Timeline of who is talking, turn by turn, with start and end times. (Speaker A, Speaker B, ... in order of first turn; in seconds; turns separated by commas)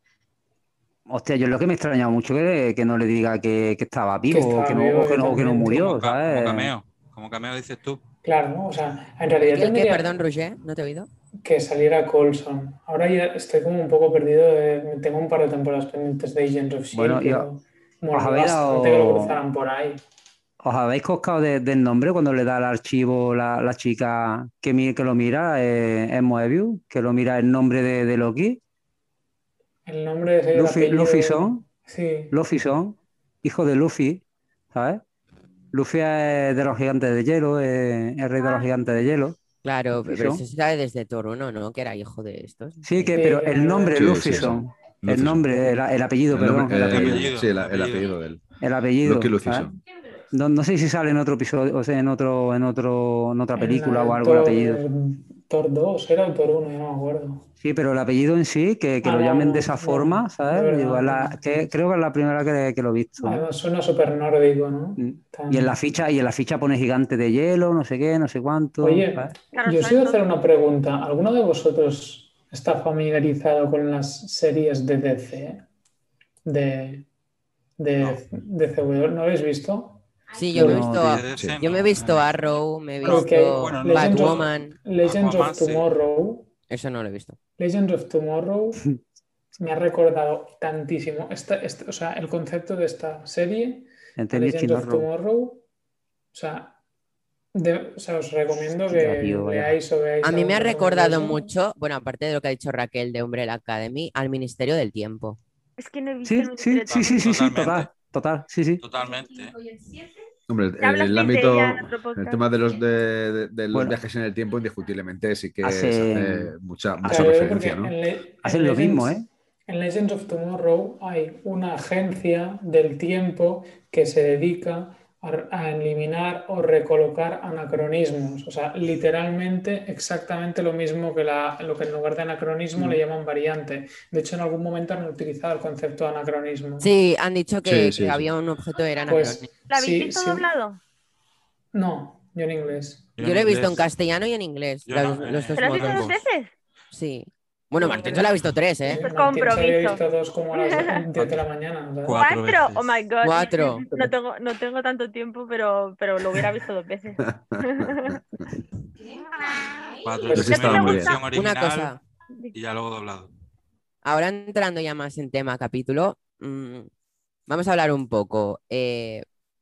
Speaker A: 1.1-6.7, Speaker B: 4.3-5.9, Speaker C: 5.8-8.0, Speaker B: 8.2-10.2, Speaker D: 9.4-11.1, Speaker B: 11.4-20.0, Speaker A: 16.9-17.5, Speaker A: 18.1-19.4, Speaker A: 20.6-28.6, Speaker B: 29.9-32.3, Speaker A: 30.5-31.6, Speaker A: 32.3-34.2, Speaker A: 34.7-35.0, Speaker A: 35.7-39.4, Speaker D: 39.6-43.2, Speaker A: 40.0-40.4, Speaker A: 42.8-47.3, Speaker B: 43.1-44.1, Speaker E: 44.0-45.5, Speaker E: 46.3-48.4, Speaker C: 46.8-48.1, Speaker A: 48.6-49.7, Speaker E: 49.0-49.8, Speaker A: 50.3-54.8, Speaker B: 53.5-57.5, Speaker A: 57.6-63.5, Speaker B: 59.0-61.4, Speaker B: 63.2-65.8, Speaker A: 65.0-69.3, Speaker B: 68.8-75.7, Speaker F: 69.5-70.2, Speaker B: 76.5-77.1, Speaker B: 77.8-80.0, Speaker D: 80.3-84.8, Speaker A: 80.5-81.2, Speaker B: 80.5-80.9, Speaker C: 80.7-82.4, Speaker C: 83.0-85.8, Speaker B: 83.0-86.5, Speaker D: 86.7-87.4, Speaker B: 87.6-88.9, Speaker B: 89.6-95.6, Speaker A: 94.2-95.1, Speaker B: 96.3-96.8, Speaker B: 97.5-101.4, Speaker A: 98.8-99.8, Speaker D: 100.2-105.4, Speaker F: 105.8-107.5, Speaker A: 106.2-108.8, Speaker C: 106.9-107.9, Speaker C: 108.8-109.5, Speaker E: 110.5-117.9, Speaker F: 110.8-112.4, Speaker A: 115.6-116.5, Speaker B: 117.0-136.9, Speaker A: 118.4-119.3, Speaker D: 136.8-139.5, Speaker E: 137.7-138.3, Speaker B: 139.1-140.5, Speaker F: 139.7-140.8, Speaker B: 141.7-143.1, Speaker C: 143.2-143.9, Speaker D: 143.2-146.1, Speaker C: 144.9-146.2, Speaker F: 145.6-146.5, Speaker D: 146.9-149.1, Speaker C: 147.8-148.5, Speaker B: 148.8-152.2, Speaker F: 148.9-150.0, Speaker F: 150.5-151.0, Speaker C: 151.2-151.4, Speaker C: 152.0-152.9, Speaker F: 152.1-158.2, Speaker D: 153.2-153.9, Speaker E: 157.2-158.2, Speaker F: 159.4-161.3, Speaker C: 160.0-161.9, Speaker B: 160.3-160.6, Speaker E: 160.3-161.2, Speaker D: 161.3-162.0, Speaker C: 162.5-163.3, Speaker D: 164.0-166.9, Speaker D: 167.5-169.2